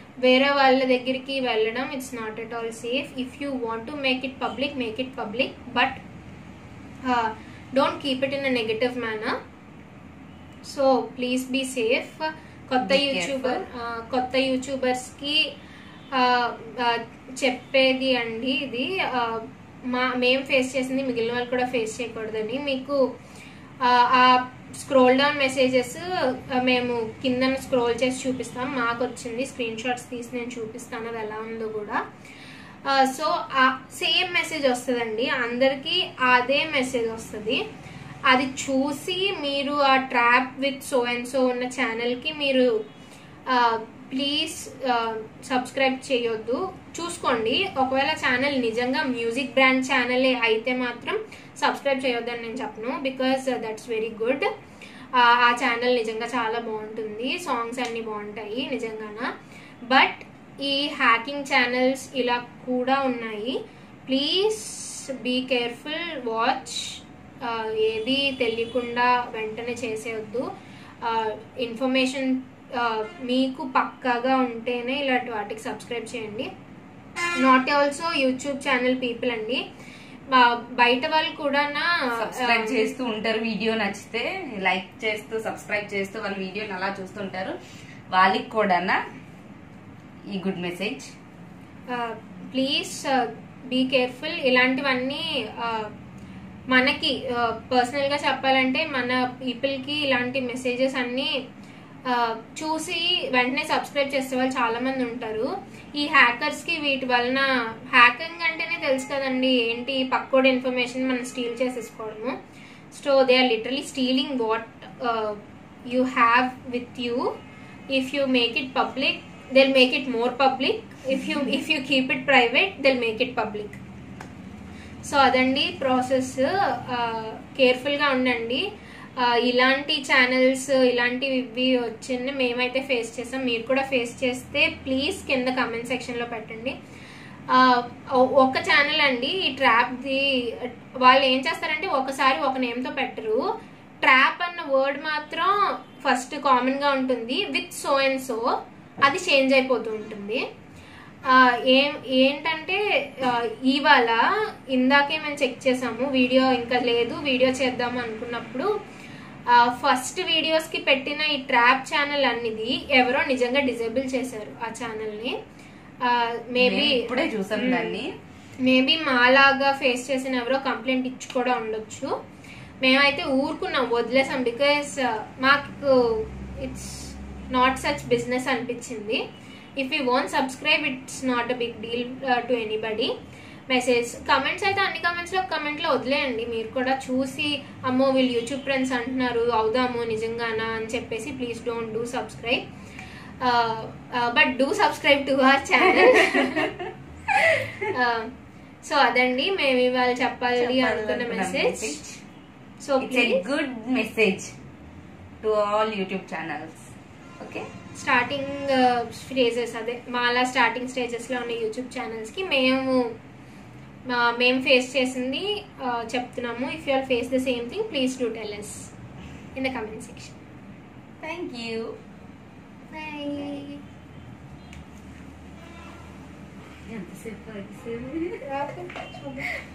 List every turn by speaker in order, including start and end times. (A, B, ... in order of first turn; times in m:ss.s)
0:00.2-0:06.0 A
0:07.0-0:09.3 A
0:10.6-0:15.4 A
0:12.8-0:13.6 B
0:16.1-0:23.0 A
0:23.8-0:32.0 A
0:32.9-0:37.6 A
0:38.3-0:42.7 A
0:43.5-0:54.4 A
0:55.2-0:59.3 A
0:59.9-1:03.6 A
1:04.1-1:10.4 A
1:11.0-1:16.5 A
1:17.4-1:19.6 A
1:20.3-1:22.9 A
1:22.1-1:27.6 B
1:28.1-1:29.0 B
1:30.3-1:31.0 B
1:31.9-1:35.9 A
1:36.7-1:41.3 A
1:42.1-1:52.3 A
1:52.9-1:57.2 A
1:57.9-2:03.8 A
2:05.0-2:08.6 A
2:09.2-2:16.7 A
2:17.5-2:23.4 A
2:24.0-2:28.4 A
2:29.0-2:30.4 A
2:31.3-2:34.2 A
2:34.7-2:38.7 A
2:39.5-2:45.3 A
2:46.0-2:48.0 A
2:46.6-2:48.1 B
2:48.6-2:52.1 A
2:52.8-2:59.2 A
2:59.8-3:03.1 A
3:03.7-3:12.6 A
3:13.4-3:16.7 A
3:15.9-3:16.9 B
3:17.4-3:18.3 A
3:17.6-3:17.8 B
3:18.8-3:22.0 A
3:20.6-3:22.2 B
3:22.8-3:23.4 A
3:23.0-3:24.5 B
3:25.4-3:26.9 B
3:27.9-3:33.0 A
3:34.1-3:38.9 A
3:39.5-3:40.3 A
3:41.2-3:41.9 B
3:42.9-3:43.7 A
3:46.9-3:48.4 B
3:48.4-3:49.4 A